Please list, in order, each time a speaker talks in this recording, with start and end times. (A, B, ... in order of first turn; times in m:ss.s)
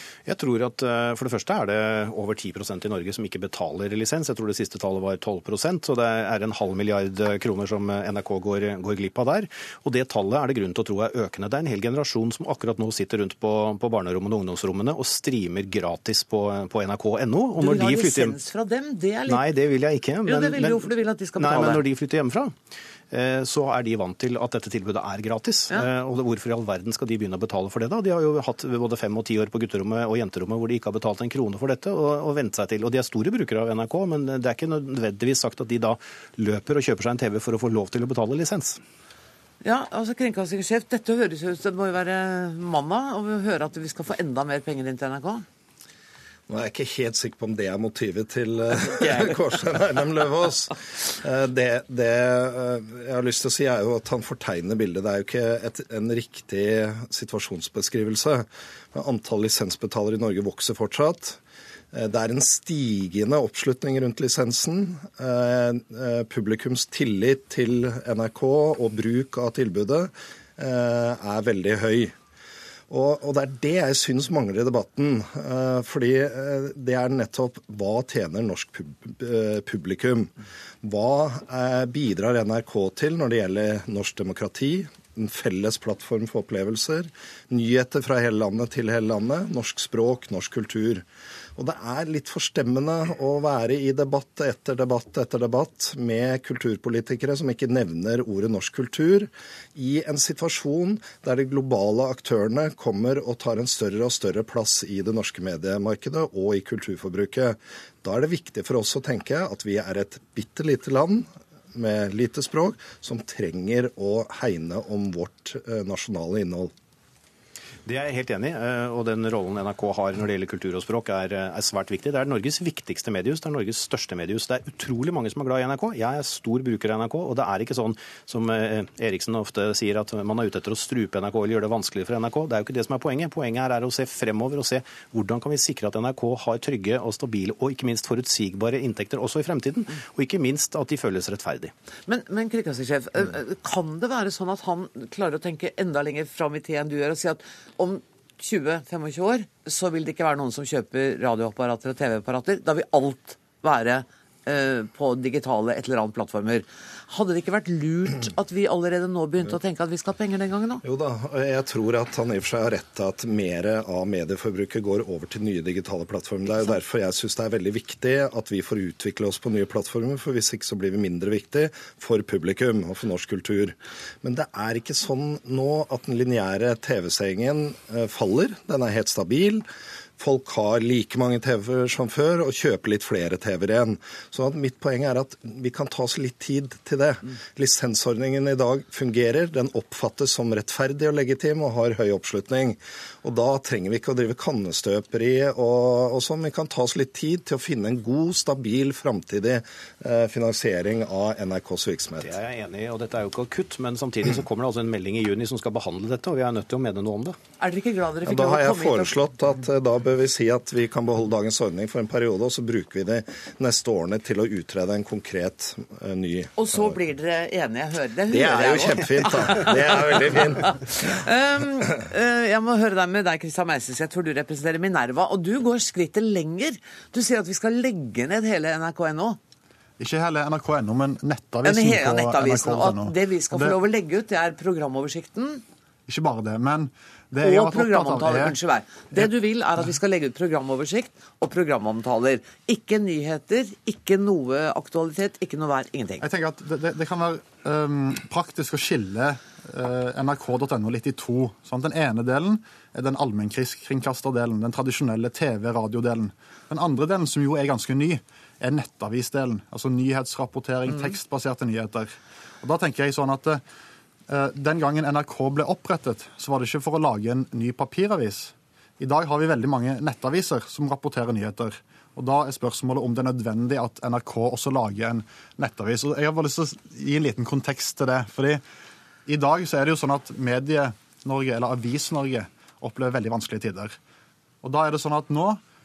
0:00.3-0:18.4 A
0:17.6-0:19.4 B
0:19.3-0:38.8 A
0:20.2-0:21.8 B
0:39.6-0:45.4 B
0:46.5-1:01.4 C
1:01.9-1:12.2 C
1:12.9-1:31.0 C
1:31.6-1:56.7 C
1:57.8-2:21.7 A
2:22.1-2:40.8 B
2:40.8-2:59.6 C
3:00.2-3:22.4 C
3:22.2-3:27.4 A
3:27.6-3:29.1 B
3:28.3-3:37.0 C
3:36.6-3:49.4 B
3:38.3-3:40.7 C
3:50.0-3:53.8 D
3:51.6-3:55.6 B
3:56.1-3:58.6 D
3:57.4-4:06.2 B
4:06.2-4:23.6 D
4:24.3-4:38.6 D
4:39.3-4:44.0 D
4:44.6-4:45.6 D